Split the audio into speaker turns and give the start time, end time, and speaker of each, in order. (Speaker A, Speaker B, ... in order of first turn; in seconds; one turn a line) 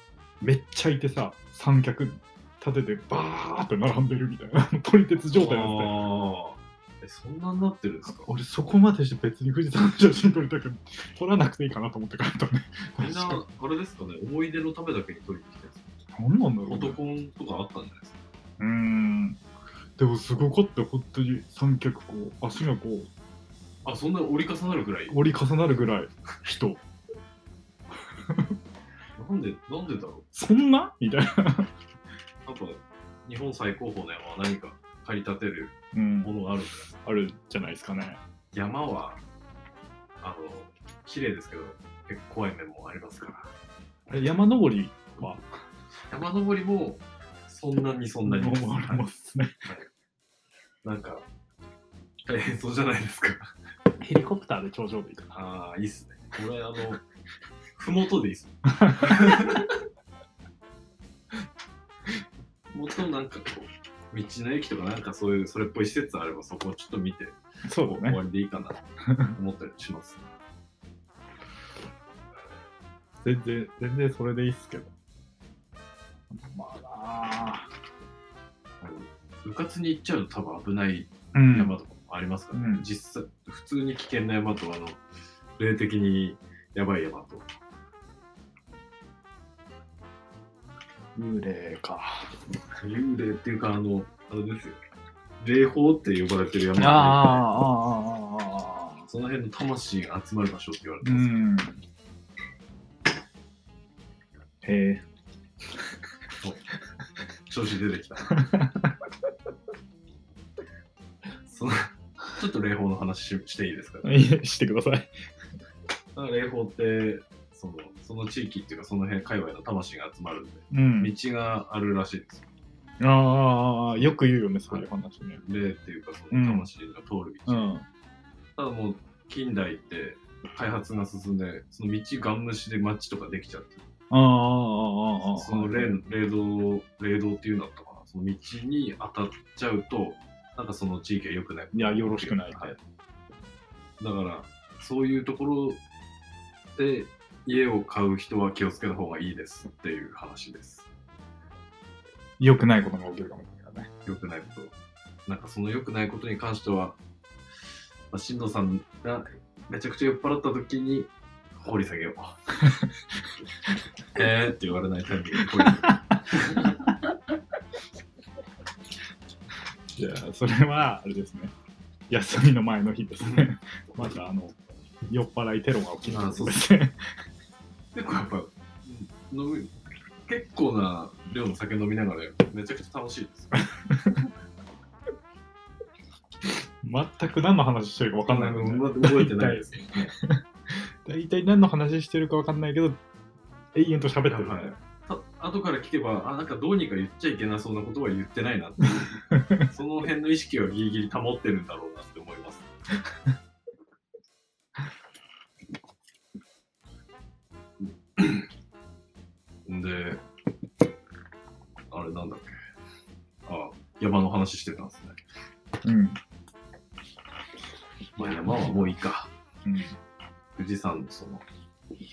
Speaker A: 0.4-6.0
Speaker B: 5.3-8.3
Speaker A: 8.1-13.4
Speaker B: 13.0-15.9
Speaker A: 16.1-17.0
Speaker B: 16.6-18.2
Speaker A: 18.6-19.4
Speaker A: 20.0-23.1
Speaker B: 23.8-25.2
Speaker A: 25.1-26.8
Speaker A: 28.2-28.5
Speaker B: 29.1-30.3
Speaker A: 30.3-31.7
Speaker B: 32.4-36.9
Speaker A: 35.9-36.3
Speaker A: 37.0-38.2
Speaker B: 38.5-39.2
Speaker B: 40.2-43.5
Speaker A: 44.1-45.5
Speaker B: 46.1-49.0
Speaker A: 48.2-49.6
Speaker B: 50.8-51.2
Speaker B: 52.2-53.5
Speaker A: 54.0-55.4
Speaker B: 55.3-57.0
Speaker B: 57.8-59.7
Speaker A: 58.8-59.6
Speaker B: 62.7-70.2
Speaker A: 67.7-68.2
Speaker A: 73.2-74.9
Speaker A: 76.3-77.7
Speaker B: 78.8-85.0
Speaker A: 81.3-81.7
Speaker A: 82.5-82.9
Speaker B: 85.6-87.5
Speaker A: 91.1-92.3
Speaker B: 92.8-94.8
Speaker B: 95.4-97.5
Speaker A: 96.8-99.0
Speaker B: 99.0-101.5
Speaker A: 101.0-101.8
Speaker A: 104.6-105.0
Speaker B: 107.5-108.5
Speaker A: 108.3-109.0
Speaker B: 111.4-114.2
Speaker A: 114.0-115.1
Speaker B: 116.2-122.5
Speaker A: 120.7-121.1
Speaker A: 123.0-125.4
Speaker B: 124.7-127.7
Speaker A: 126.3-126.7
Speaker A: 127.5-127.8
Speaker B: 128.6-133.8
Speaker A: 134.1-136.0
Speaker B: 135.2-142.8
Speaker A: 141.7-142.8
Speaker B: 144.0-145.8
Speaker B: 146.8-150.9
Speaker A: 152.4-153.9
Speaker B: 154.1-154.8
Speaker B: 155.3-157.0
Speaker B: 158.1-162.4
Speaker A: 162.6-162.9
Speaker B: 164.1-166.8
Speaker A: 165.6-165.9
Speaker A: 169.9-171.5
Speaker A: 172.1-174.6
Speaker B: 173.2-173.5
Speaker A: 175.1-177.0
Speaker B: 176.1-176.6
Speaker B: 177.9-179.7
Speaker B: 180.2-183.7
Speaker A: 183.9-184.2
Speaker A: 186.4-193.0
Speaker B: 188.3-190.1
Speaker A: 193.7-194.8
Speaker B: 194.3-202.7
Speaker A: 199.3-199.7
Speaker B: 207.8-208.5
Speaker B: 209.7-210.2
Speaker B: 211.9-212.6
Speaker B: 213.4-215.2
Speaker A: 215.8-216.2
Speaker B: 218.2-219.3
Speaker A: 219.6-220.0
Speaker B: 220.6-221.4